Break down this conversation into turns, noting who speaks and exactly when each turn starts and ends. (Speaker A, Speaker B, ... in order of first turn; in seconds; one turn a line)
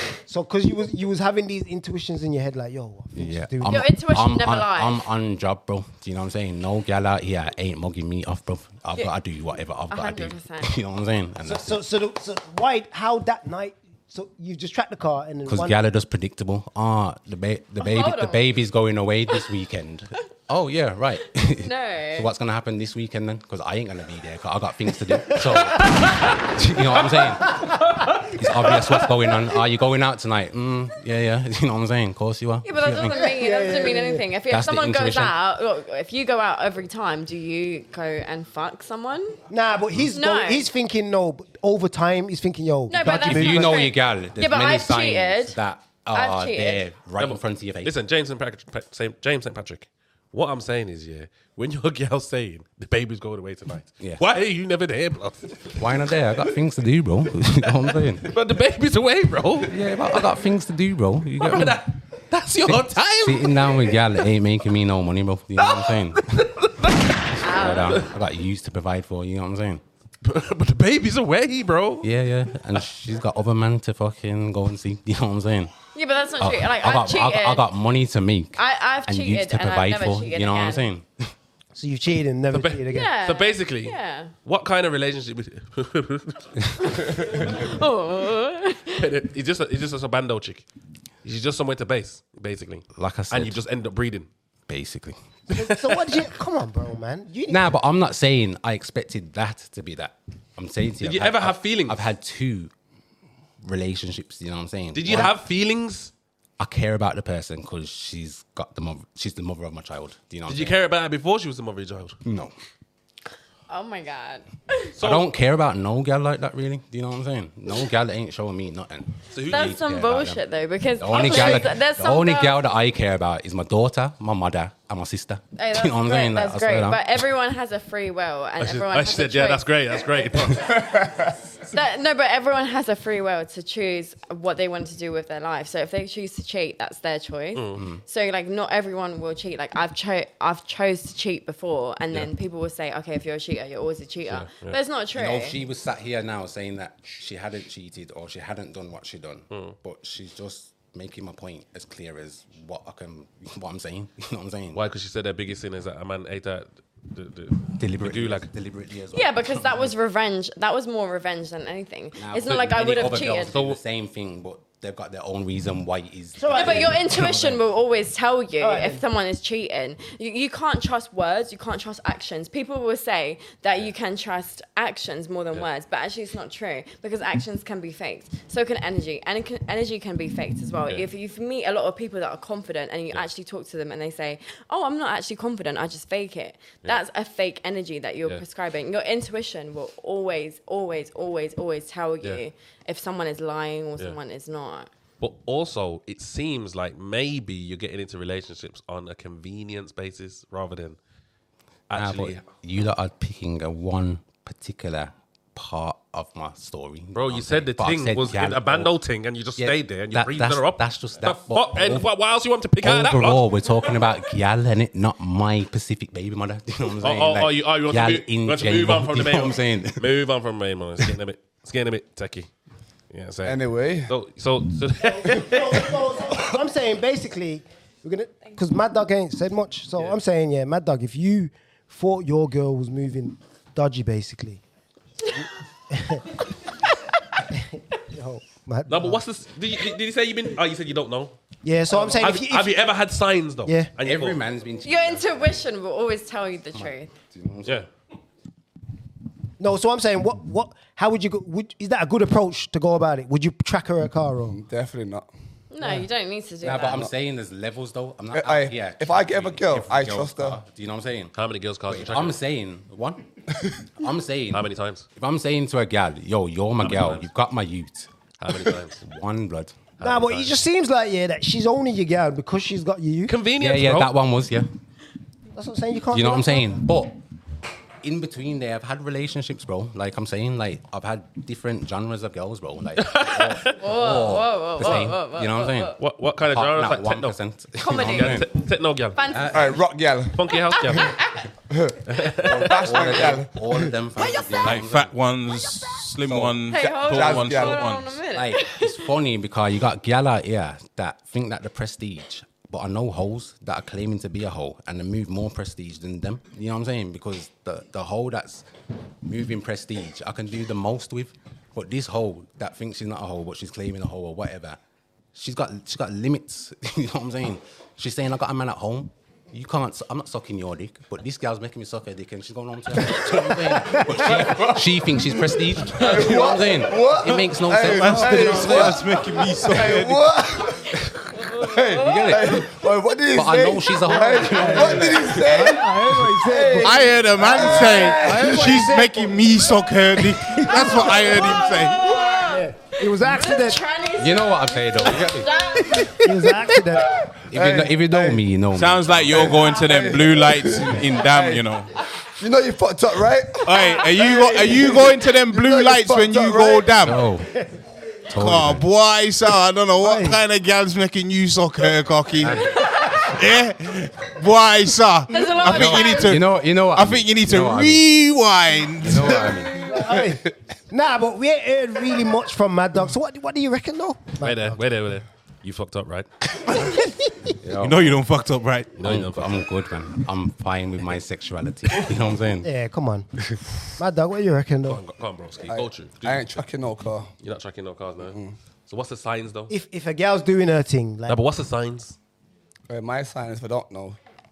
Speaker A: 0.3-3.8
Speaker B: 3.2-11.8
Speaker C: 3.6-5.0
Speaker C: 9.9-10.8
Speaker A: 11.4-15.8
Speaker B: 15.5-33.3
Speaker C: 17.8-18.5
Speaker C: 21.6-22.3
Speaker D: 26.0-26.3
Speaker C: 32.6-39.4
Speaker A: 33.2-34.3
Speaker B: 34.5-35.4
Speaker A: 39.5-43.8
Speaker C: 40.1-40.7
Speaker C: 42.9-45.6
Speaker B: 43.2-48.0
Speaker C: 46.1-46.9
Speaker D: 47.2-55.8
Speaker B: 55.8-58.3
Speaker D: 58.2-60.3
Speaker B: 59.7-61.8
Speaker D: 61.4-64.3
Speaker B: 62.6-66.5
Speaker D: 65.6-68.1
Speaker B: 67.4-69.8
Speaker C: 67.4-68.0
Speaker D: 70.2-72.1
Speaker B: 72.0-75.7
Speaker C: 76.0-77.7
Speaker B: 76.4-81.3
Speaker C: 78.6-80.9
Speaker A: 81.8-83.1
Speaker D: 82.5-87.6
Speaker C: 82.9-84.3
Speaker C: 86.9-89.1
Speaker D: 89.0-90.7
Speaker D: 91.2-94.3
Speaker B: 92.9-93.6
Speaker B: 94.7-95.2
Speaker D: 95.5-96.2
Speaker A: 95.5-97.7
Speaker B: 97.5-102.7
Speaker D: 101.0-102.0
Speaker B: 103.6-105.4
Speaker D: 104.9-106.1
Speaker B: 106.6-110.8
Speaker D: 110.5-112.2
Speaker B: 112.2-112.5
Speaker C: 113.7-115.0
Speaker D: 115.0-115.3
Speaker B: 115.0-120.4
Speaker D: 119.3-119.8
Speaker C: 119.5-122.6
Speaker B: 121.0-127.3
Speaker C: 125.5-129.7
Speaker D: 128.6-130.9
Speaker C: 130.4-130.7
Speaker E: 130.9-131.3
Speaker C: 131.7-145.6
Speaker D: 137.6-137.8
Speaker D: 144.3-144.8
Speaker B: 145.2-154.8
Speaker D: 154.7-158.5
Speaker B: 157.8-159.9
Speaker C: 159.1-163.7
Speaker B: 162.2-167.6
Speaker A: 166.4-166.9
Speaker C: 166.5-194.9
Speaker A: 168.6-169.0
Speaker D: 195.2-201.0
Speaker D: 201.9-202.4
Speaker B: 201.9-208.9
Speaker D: 207.2-213.5
Speaker B: 209.6-212.1
Speaker B: 212.8-220.1
Speaker D: 217.0-222.5
Speaker D: 223.1-225.9
Speaker E: 223.4-224.1
Speaker A: 225.0-234.6
Speaker A: 235.9-236.3
Speaker A: 237.5-239.2
Speaker D: 238.9-241.4
Speaker A: 241.6-242.8
Speaker D: 242.1-244.4
Speaker A: 243.7-243.9
Speaker B: 244.0-245.5
Speaker C: 244.8-247.1
Speaker B: 246.7-247.8
Speaker A: 249.6-254.6
Speaker E: 254.5-255.3
Speaker C: 255.7-257.1
Speaker B: 256.6-261.3
Speaker E: 258.3-260.6
Speaker D: 261.4-262.4
Speaker B: 261.9-263.3
Speaker B: 264.0-269.9
Speaker D: 264.5-265.1
Speaker D: 266.8-267.2
Speaker D: 268.4-269.0
Speaker D: 270.0-270.6
Speaker A: 270.0-273.4
Speaker D: 273.3-274.1
Speaker B: 273.6-274.7
Speaker A: 275.6-276.8
Speaker B: 276.1-277.2
Speaker B: 278.0-285.9
Speaker D: 283.0-283.8
Speaker C: 283.8-286.0
Speaker D: 286.0-287.4
Speaker B: 286.5-288.5
Speaker C: 287.8-288.4
Speaker D: 288.0-289.2
Speaker C: 289.1-289.8
Speaker B: 289.3-289.7
Speaker E: 289.5-291.1
Speaker D: 290.3-291.2
Speaker C: 290.7-291.5
Speaker E: 291.7-293.9
Speaker D: 292.1-292.9
Speaker B: 292.3-295.1
Speaker F: 294.6-298.2
Speaker B: 296.2-296.8
Speaker C: 296.7-299.0
Speaker E: 297.1-297.9
Speaker B: 298.3-308.7
Speaker B: 309.2-314.8
Speaker B: 315.3-329.1
Speaker E: 324.1-338.9
Speaker F: 327.8-330.3
Speaker A: 328.3-328.7
Speaker B: 331.9-332.7
Speaker C: 332.0-332.4
Speaker B: 333.3-335.7
Speaker A: 334.1-339.6
Speaker F: 336.8-342.2
Speaker A: 340.1-343.8
Speaker C: 340.9-346.2
Speaker B: 344.1-345.8
Speaker A: 346.1-347.1
Speaker C: 347.1-347.3
Speaker B: 347.4-349.6
Speaker E: 347.5-348.4
Speaker F: 348.7-352.0
Speaker E: 349.3-351.7
Speaker C: 349.6-350.0
Speaker E: 352.4-357.0
Speaker F: 353.6-357.2
Speaker B: 357.0-357.6
Speaker B: 358.3-358.8
Speaker F: 358.3-369.6
Speaker A: 360.0-360.4
Speaker B: 362.4-362.7
Speaker C: 362.7-363.4
Speaker C: 365.3-366.4
Speaker B: 365.6-368.1
Speaker B: 369.0-369.9
Speaker C: 369.6-370.0
Speaker A: 369.9-374.8
Speaker E: 370.0-370.4
Speaker D: 374.4-376.3
Speaker B: 377.6-378.1
Speaker F: 377.8-379.0
Speaker D: 379.0-379.6
Speaker B: 379.0-382.7
Speaker A: 382.6-383.3
Speaker A: 384.0-385.0
Speaker D: 384.9-386.6
Speaker E: 385.7-387.3
Speaker D: 387.4-388.4
Speaker E: 388.2-388.5
Speaker D: 388.9-389.7
Speaker A: 389.7-391.4
Speaker D: 391.3-392.2
Speaker E: 392.9-394.2